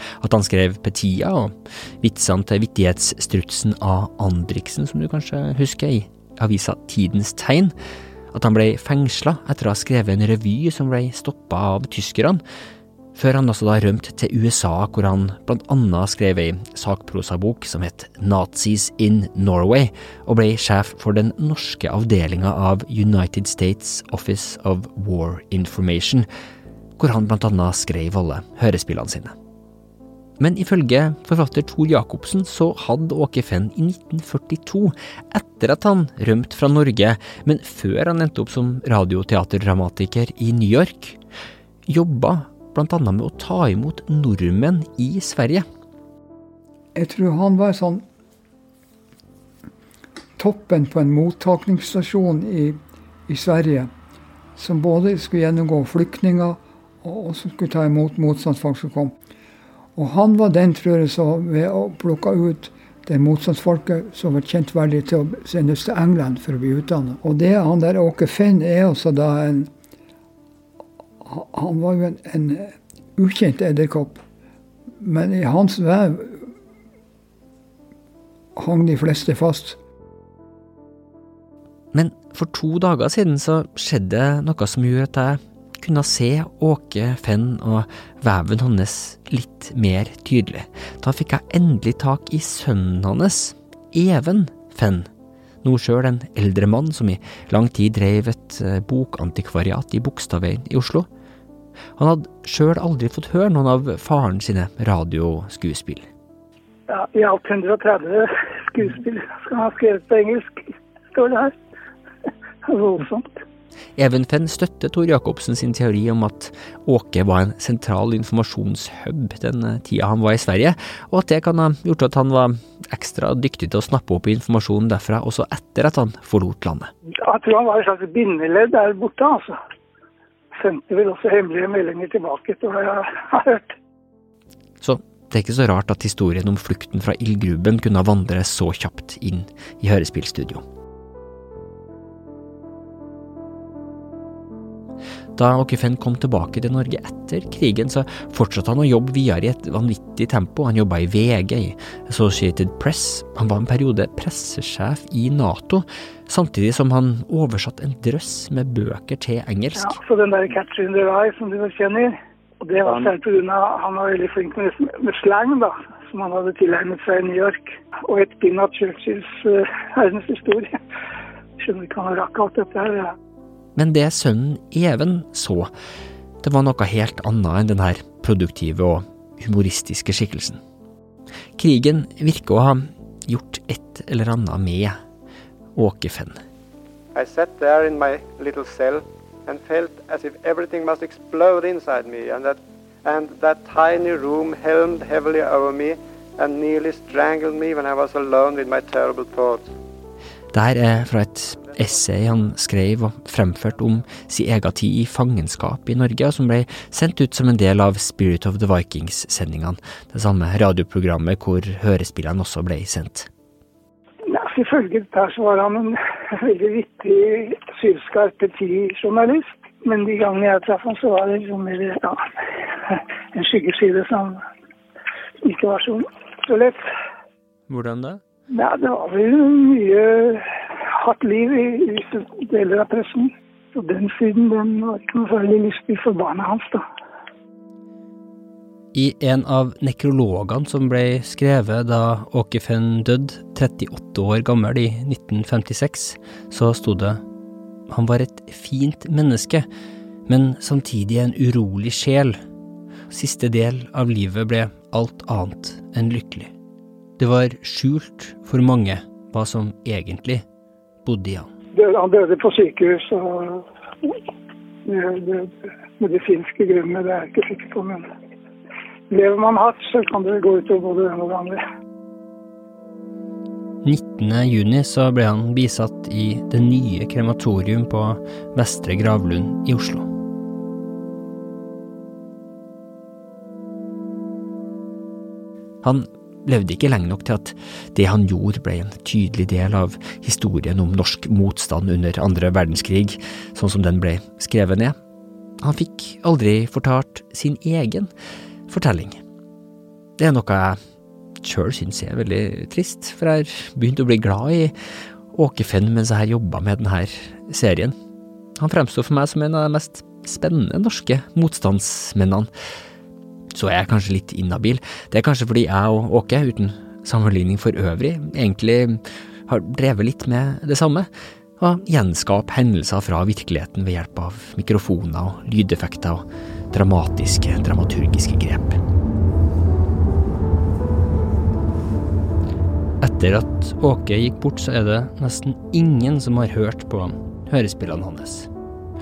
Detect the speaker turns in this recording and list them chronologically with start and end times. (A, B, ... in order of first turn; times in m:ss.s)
0:00.2-0:07.7 A
0:08.3-0:12.4 A
0:13.1-0:26.3 A
0:27.0-0:29.3 A
0:30.4-0:41.2 A
0:41.9-0:45.6 A
0:46.9-0:48.0 B
0:50.4-0:53.9 B
0:54.6-0:59.1 B
1:00.0-1:09.7 B
1:11.2-1:14.2 B
1:15.0-1:16.5 B
1:18.6-1:19.8 B
1:21.9-1:35.1 A
1:35.6-1:41.1 A
1:42.0-1:46.1 A
1:46.9-1:51.5 C
1:52.7-1:53.4 C
1:54.0-2:06.9 A
2:07.2-2:09.6 C
2:10.6-2:13.7 C
2:14.8-2:20.6 A
2:25.4-2:40.0 A
2:39.7-2:50.8 C
2:51.6-2:53.1 C
2:53.8-2:55.7 A
2:56.4-3:00.6 A
3:01.6-3:05.0 A
3:05.8-3:06.4 A
3:07.1-3:19.7 D
3:20.5-3:33.3 A
3:34.3-3:42.3 C
3:42.8-3:44.4 C
3:45.4-3:46.8 C
3:47.7-3:48.2 A
3:48.5-3:56.8 C
3:58.9-4:07.2 A
4:07.9-4:09.6 A
4:10.3-4:12.4 A
4:13.1-4:16.5 A
4:17.2-4:20.4 A
4:21.0-4:21.5 A
4:21.7-4:24.2 C
4:24.8-4:28.1 C
4:29.1-4:31.6 C
4:33.8-4:40.1 A
4:45.8-4:55.0 A
4:55.6-4:58.1 A
4:58.7-4:59.2 A
5:00.2-5:00.8 A
5:01.4-5:04.7 A
5:05.3-5:07.9 A
5:08.6-5:12.5 A
5:13.5-5:28.8 A
5:33.0-5:38.5 A